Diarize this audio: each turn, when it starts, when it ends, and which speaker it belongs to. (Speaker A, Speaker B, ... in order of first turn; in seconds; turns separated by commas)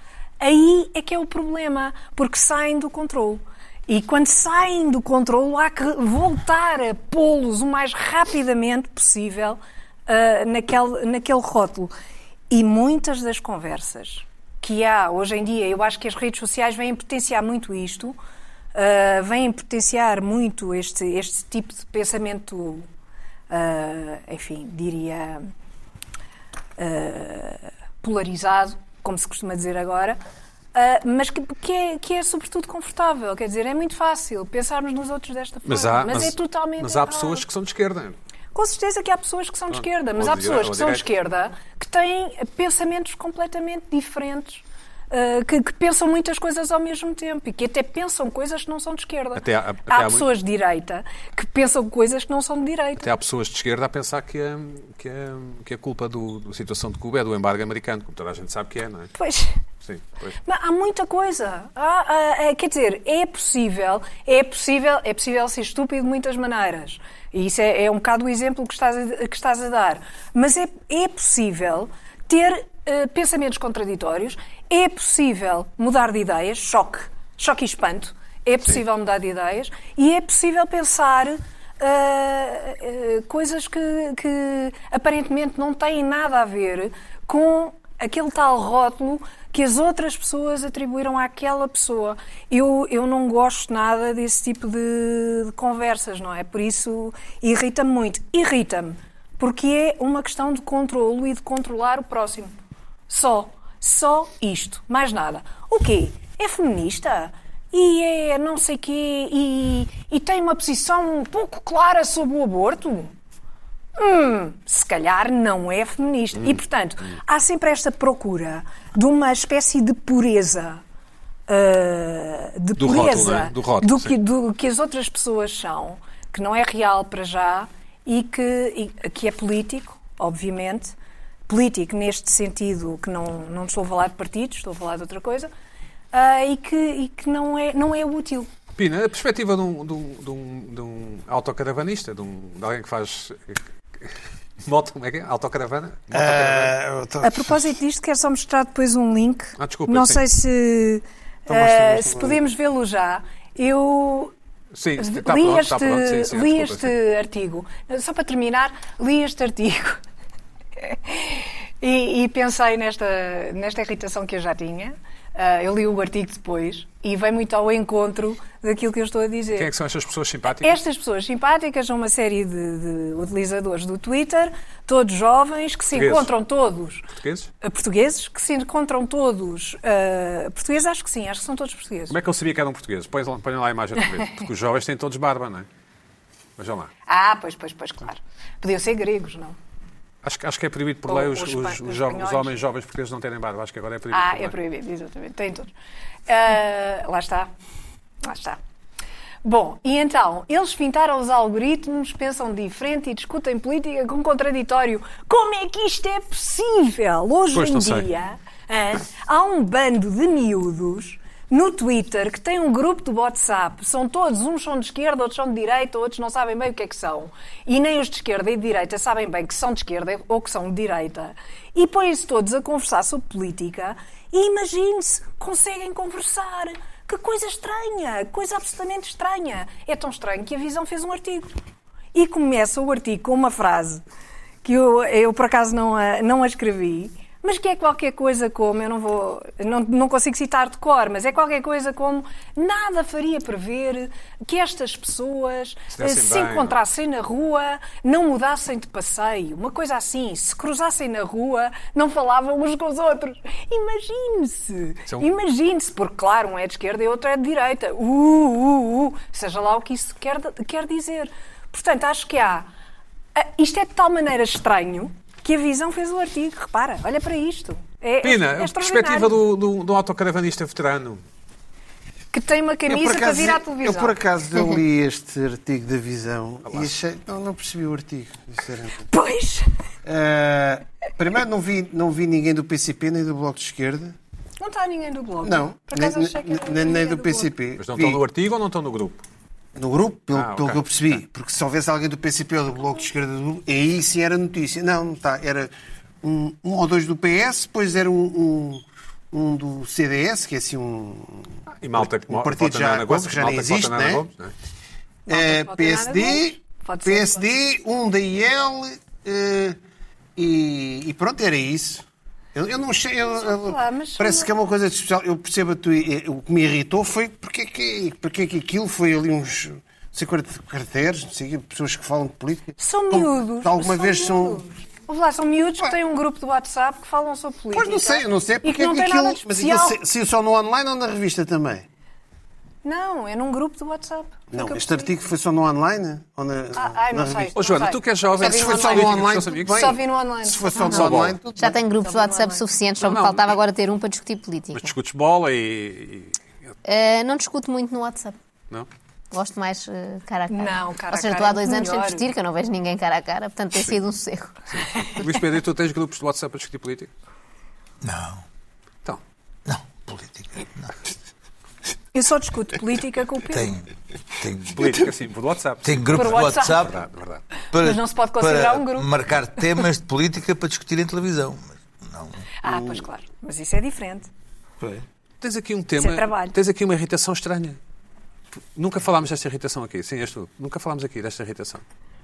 Speaker A: 0.4-11.9, Speaker A: 12.5-18.1, Speaker A: 18.7-22.9, Speaker A: 23.5-25.5, Speaker A: 26.8-30.2, Speaker A: 30.7-37.5, Speaker B: 35.6-38.1, Speaker A: 38.5-53.1, Speaker B: 39.7-41.1, Speaker B: 49.3-50.3, Speaker B: 53.0-59.1, Speaker A: 59.1-59.5, Speaker B: 59.8-60.4, Speaker A: 60.4-102.5, Speaker A: 103.1-113.1, Speaker A: 114.0-120.8, Speaker A: 121.5-130.9, Speaker B: 122.8-124.2, Speaker A: 131.5-135.5, Speaker A: 136.1-138.5, Speaker B: 138.8-146.7, Speaker C: 146.1-147.7, Speaker A: 147.2-154.3, Speaker B: 149.6-150.2, Speaker C: 151.5-152.4, Speaker B: 154.7-156.9, Speaker A: 155.0-160.0, Speaker A: 160.8-169.7, Speaker B: 169.5-170.8, Speaker A: 170.5-177.0, Speaker B: 175.9-176.3, Speaker B: 177.2-177.5, Speaker A: 177.6-182.2, Speaker B: 182.1-185.7, Speaker B: 186.6-186.9, Speaker A: 187.1-189.6, Speaker B: 190.2-194.6, Speaker A: 191.1-192.5, Speaker A: 194.1-195.7, Speaker A: 196.3-197.5, Speaker A: 198.2-198.6, Speaker A: 199.4-231.5, Speaker B: 207.5-208.1, Speaker A: 232.1-234.0, Speaker A: 234.6-262.7, Speaker B: 245.9-246.8, Speaker A: 263.3-269.4, Speaker B: 268.2-271.2, Speaker A: 272.3-274.2, Speaker C: 272.9-279.0, Speaker B: 276.6-276.9, Speaker A: 279.1-279.7, Speaker C: 280.0-284.1, Speaker A: 284.6-287.5, Speaker C: 285.4-288.2, Speaker B: 287.8-289.2, Speaker C: 289.7-295.7, Speaker B: 290.3-290.8, Speaker C: 296.2-304.2, Speaker B: 301.7-304.5, Speaker A: 305.3-307.5, Speaker C: 305.3-309.8, Speaker C: 310.4-312.0, Speaker C: 312.5-324.6, Speaker A: 313.4-314.5, Speaker A: 322.8-330.0, Speaker C: 327.7-331.9, Speaker A: 332.8-335.1, Speaker C: 334.5-337.5, Speaker A: 336.7-342.6, Speaker B: 337.6-339.9, Speaker C: 338.4-341.8, Speaker B: 340.8-341.4, Speaker D: 341.6-344.9, Speaker B: 343.0-343.4, Speaker B: 344.7-346.5, Speaker D: 346.8-348.3, Speaker D: 349.3-354.6, Speaker A: 350.5-352.3, Speaker B: 354.7-357.1, Speaker E: 358.0-358.4, Speaker E: 359.6-360.9, Speaker A: 362.1-363.7, Speaker E: 363.5-363.9, Speaker E: 364.4-365.0, Speaker B: 364.7-367.4, Speaker E: 365.8-366.9, Speaker A: 366.1-366.9, Speaker E: 367.7-372.4, Speaker A: 367.7-369.1, Speaker A: 372.6-374.3, Speaker C: 372.6-373.0, Speaker B: 375.4-377.8, Speaker A: 376.0-376.6, Speaker B: 378.7-381.8